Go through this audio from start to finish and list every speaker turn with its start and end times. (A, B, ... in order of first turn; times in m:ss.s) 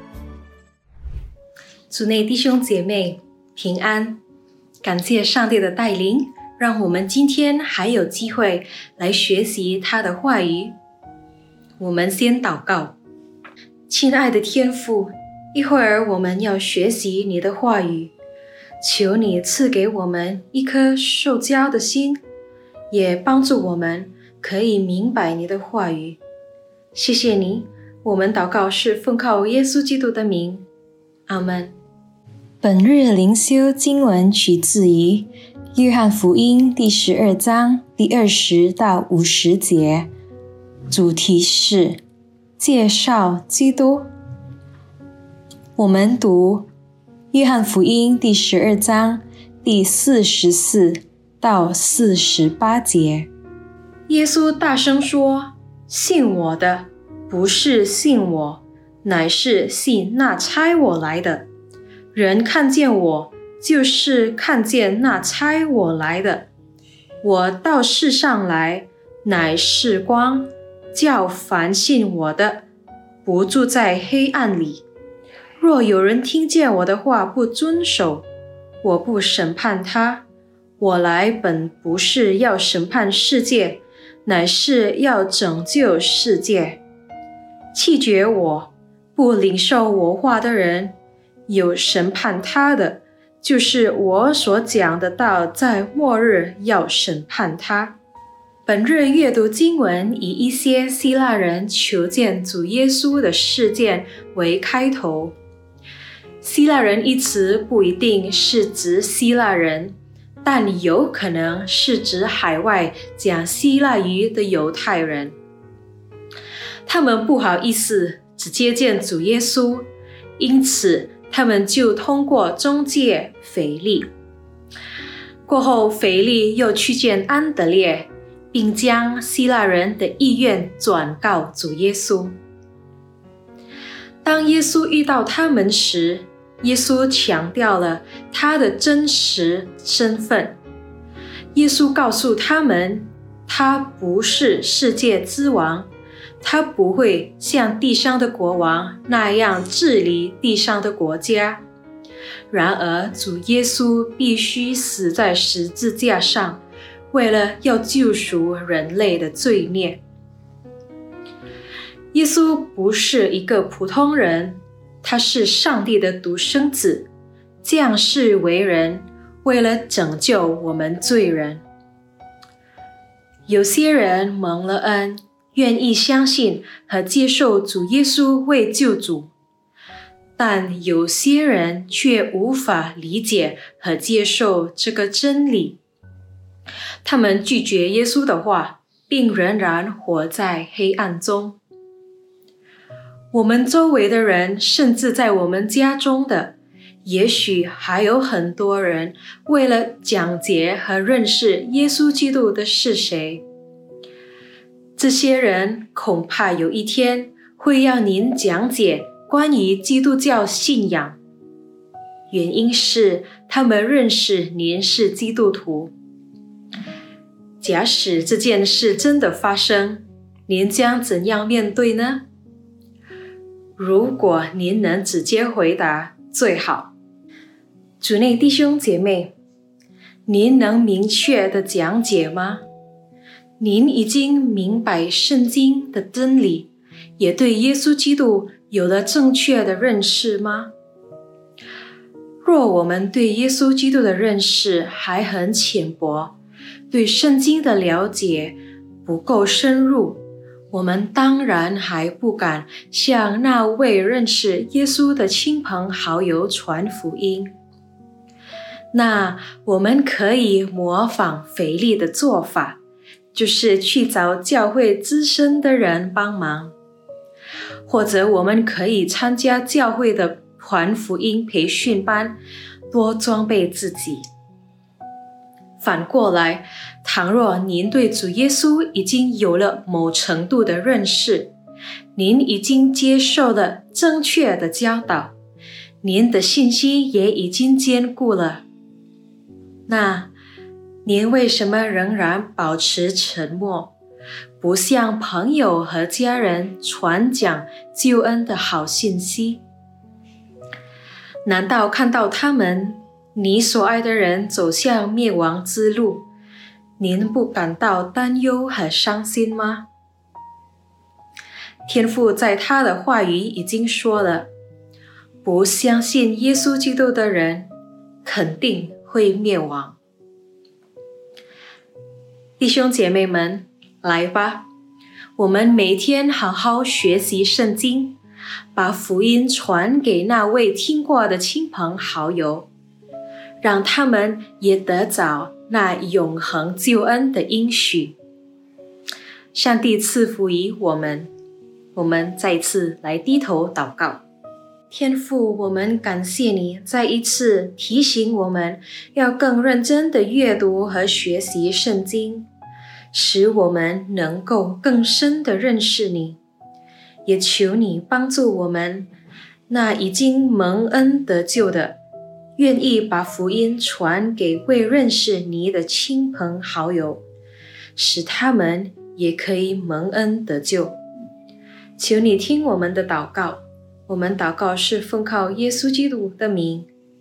0:01.9-0:04.2 A
0:04.8-0:10.7 A
0:11.8-0:13.0 A
0:13.9-0:18.1 A
0:18.8-0:22.2 A
0:22.9-0:26.2 A
0:26.9-0:30.7 A
0:31.3-0:31.8 A
0:32.6-0:40.1 A
0:40.9-0:42.0 A
0:42.6-0:44.1 A
0:45.8-0:46.7 A
0:47.3-0:53.3 A
0:54.1-1:01.5 A
1:02.1-1:06.5 A
1:07.2-1:12.7 A
1:13.2-1:14.8 A
1:15.6-1:18.3 A
1:18.8-1:20.2 A
1:20.8-1:26.8 A
1:27.7-1:30.9 A
1:31.5-1:38.0 A
1:38.7-1:45.4 A
1:46.4-1:55.4 A
1:56.8-2:04.1 A
2:05.4-2:12.4 A
2:14.2-2:20.6 A
2:21.5-2:25.9 A
2:26.4-2:31.6 A
2:32.5-2:40.0 A
2:42.1-2:47.1 A
2:47.6-2:51.6 A
2:53.5-2:59.3 A
3:00.4-3:05.8 A
3:07.0-3:11.6 A
3:13.3-3:23.4 A
3:25.0-3:31.2 A
3:32.3-3:35.9 A
3:37.6-3:42.2 A
3:43.8-3:46.9 A
3:48.0-3:49.3 A
3:50.2-3:52.6 A
3:53.6-4:00.7 A
4:02.4-4:06.4 A
4:06.9-4:17.5 A
4:18.9-4:22.8 A
4:23.3-4:26.8 A
4:27.9-4:32.4 A
4:32.9-4:34.2 A
4:35.8-4:41.5 A
4:42.2-4:45.4 A
4:46.0-4:48.6 A
4:49.9-4:50.3 A
4:51.0-4:53.9 A
4:54.6-4:59.6 A
5:01.4-5:06.2 A
5:07.0-5:09.9 A
5:11.9-5:14.5 A
5:15.4-5:17.7 A
5:18.2-5:20.0 A
5:22.6-5:24.7 A
5:25.4-5:28.2 A
5:28.7-5:32.7 A
5:33.6-5:38.2 A
5:39.5-5:41.3 A
5:42.0-5:44.2 A
5:44.9-5:52.5 A
5:53.1-5:56.4 A
5:57.2-5:59.1 A
5:59.7-6:02.0 A
6:02.6-6:07.2 A
6:08.0-6:11.0 A
6:12.0-6:16.9 A